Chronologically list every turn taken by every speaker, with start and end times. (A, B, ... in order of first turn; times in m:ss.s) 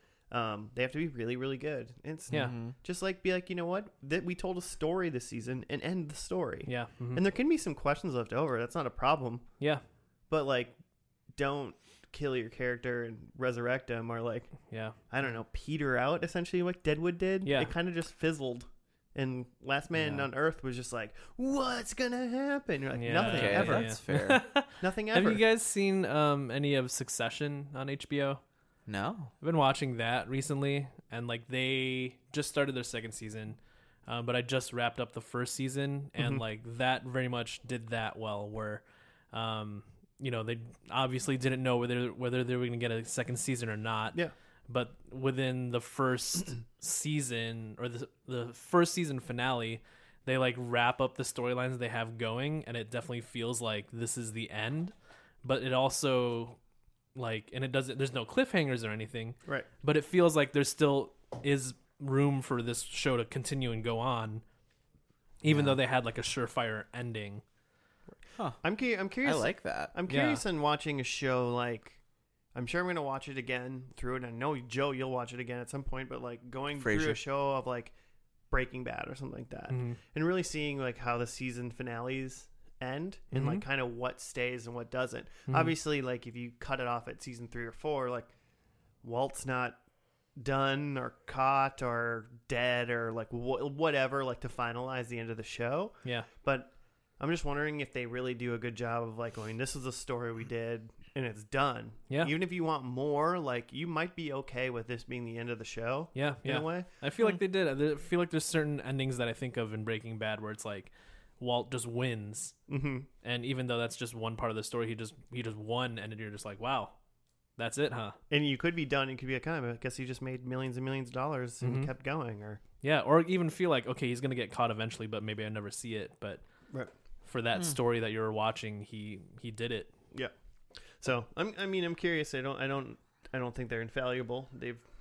0:00.3-0:09.4 A
0:02.3-0:02.7 B
0:06.6-0:07.2 C
0:10.3-0:10.8 A
0:11.3-0:14.5 A
0:14.7-0:15.0 C
0:15.1-0:24.0 A
0:17.4-0:17.7 C
0:19.9-0:20.3 C
0:23.0-0:28.4 C
0:23.2-0:24.4 B
0:24.8-0:25.4 A
0:28.9-0:29.3 B
0:29.4-0:56.6 C
0:36.2-0:36.4 A
0:57.1-1:04.4 C
1:05.4-1:07.4 C
1:08.1-1:12.0 A
1:09.2-1:09.9 B
1:10.1-1:10.4 C
1:12.5-1:17.9 A
1:16.8-1:17.2 B
1:18.5-1:28.3 A
1:19.7-1:20.0 C
1:23.3-1:23.6 C
1:25.5-1:25.7 C
1:29.0-1:29.8 A
1:30.4-1:46.9 A
1:46.1-1:52.6 C
1:52.7-1:53.1 A
1:53.2-1:57.0 C
1:57.6-1:58.2 C
1:58.3-2:02.6 A
2:01.6-2:01.9 C
2:02.8-2:06.4 C
2:07.2-2:09.9 C
2:11.0-2:14.8 A